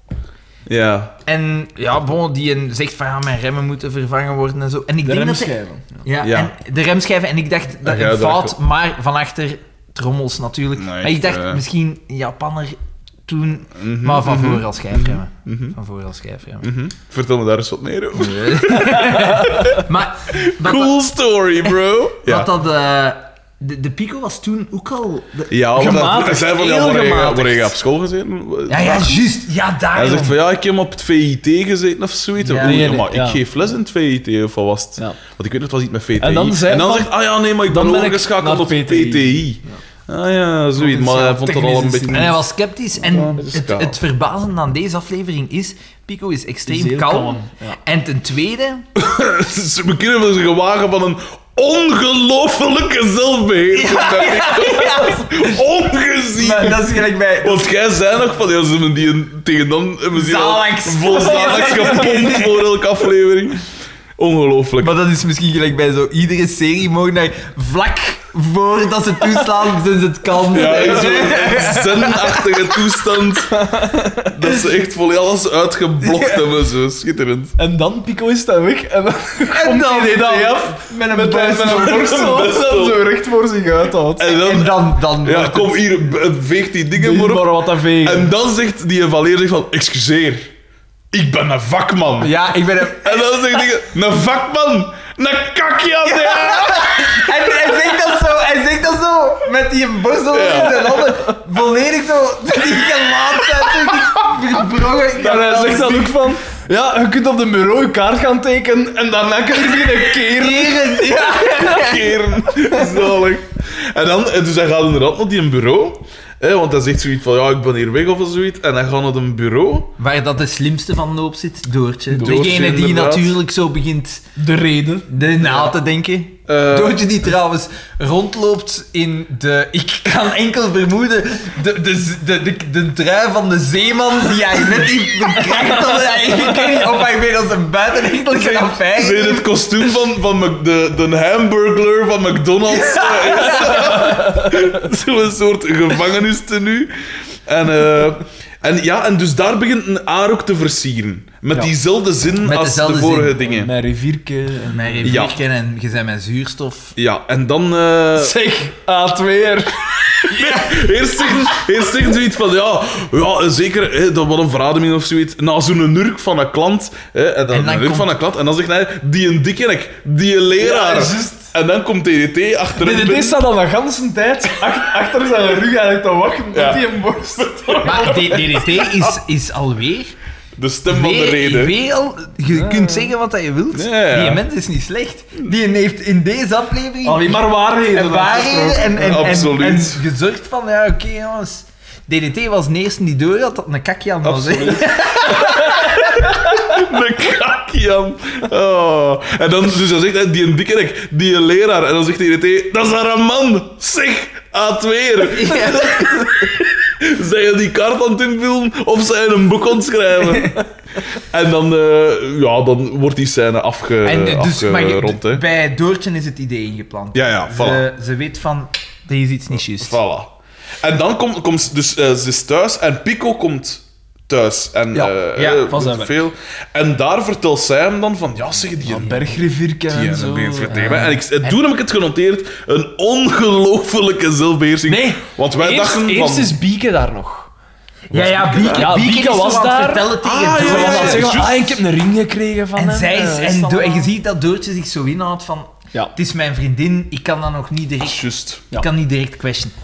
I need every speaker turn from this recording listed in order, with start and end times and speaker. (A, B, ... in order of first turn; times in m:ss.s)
0:00.7-0:01.1 A
0:01.2-0:16.7 B
0:05.0-0:06.0 C
0:06.2-0:06.5 A
0:07.8-0:08.6 A
0:10.8-0:11.6 A
0:13.8-0:15.8 A
0:16.6-0:22.5 A
0:18.2-0:20.9 B
0:22.2-0:25.9 B
0:25.5-0:29.3 A
0:25.8-0:27.7 C
0:28.7-0:30.4 B
0:29.9-0:42.4 A
0:32.4-0:32.9 B
0:32.6-0:33.4 C
0:36.2-0:39.8 C
0:40.8-0:48.9 B
0:41.2-0:42.3 C
0:43.0-0:44.0 A
0:46.7-0:47.8 C
0:48.9-1:03.6 A
0:53.7-0:55.5 B
0:56.4-0:57.7 B
1:00.1-1:02.6 B
1:01.1-1:02.2 C
1:04.2-1:04.9 A
1:04.8-1:12.8 B
1:10.5-1:13.7 A
1:10.8-1:11.1 C
1:13.5-1:14.3 C
1:14.2-1:17.6 A
1:17.6-1:24.3 C
1:19.5-1:22.5 B
1:22.0-1:23.1 A
1:24.2-1:30.5 A
1:24.2-1:25.9 B
1:27.0-1:28.3 C
1:31.1-1:37.3 A
1:32.2-1:33.7 B
1:36.1-1:46.2 B
1:40.3-1:40.9 A
1:45.2-1:52.0 C
1:50.2-1:52.0 B
1:51.5-1:59.9 A
2:00.0-2:04.2 B
2:02.1-2:02.5 C
2:02.2-2:03.4 A
2:04.4-2:05.1 C
2:05.1-2:19.5 B
2:05.4-2:05.7 A
2:06.5-2:07.0 A
2:18.3-2:26.9 A
2:22.7-2:24.2 B
2:27.5-2:33.7 A
2:32.4-2:33.4 B
2:33.4-2:35.2 C
2:34.7-2:36.9 B
2:35.0-2:35.4 A
2:37.0-2:38.4 A
2:38.1-2:40.4 C
2:40.3-2:53.4 A
2:47.5-2:48.1 B
2:50.6-2:51.5 C
2:52.8-2:58.4 C
2:56.5-2:59.1 A
2:57.8-3:00.1 B
3:00.6-3:01.8 A
3:00.9-3:16.4 B
3:02.5-3:03.1 C
3:03.7-3:04.4 A
3:07.0-3:09.2 C
3:09.0-3:10.0 A
3:14.2-3:14.8 A
3:14.6-3:15.6 C
3:15.4-3:35.4 A
3:25.3-3:26.3 B
3:34.0-3:40.0 B
3:37.1-3:37.8 A
3:39.8-3:49.4 A
3:44.9-3:46.2 C
3:45.3-3:45.7 B
3:48.8-3:51.0 C
3:49.9-3:56.6 A
3:50.7-3:51.6 B
3:54.9-3:57.5 C
3:58.1-4:01.4 B
3:58.1-3:59.0 A
3:58.7-4:04.1 C
4:00.2-4:01.8 A
4:02.8-4:09.7 B
4:08.0-4:08.7 A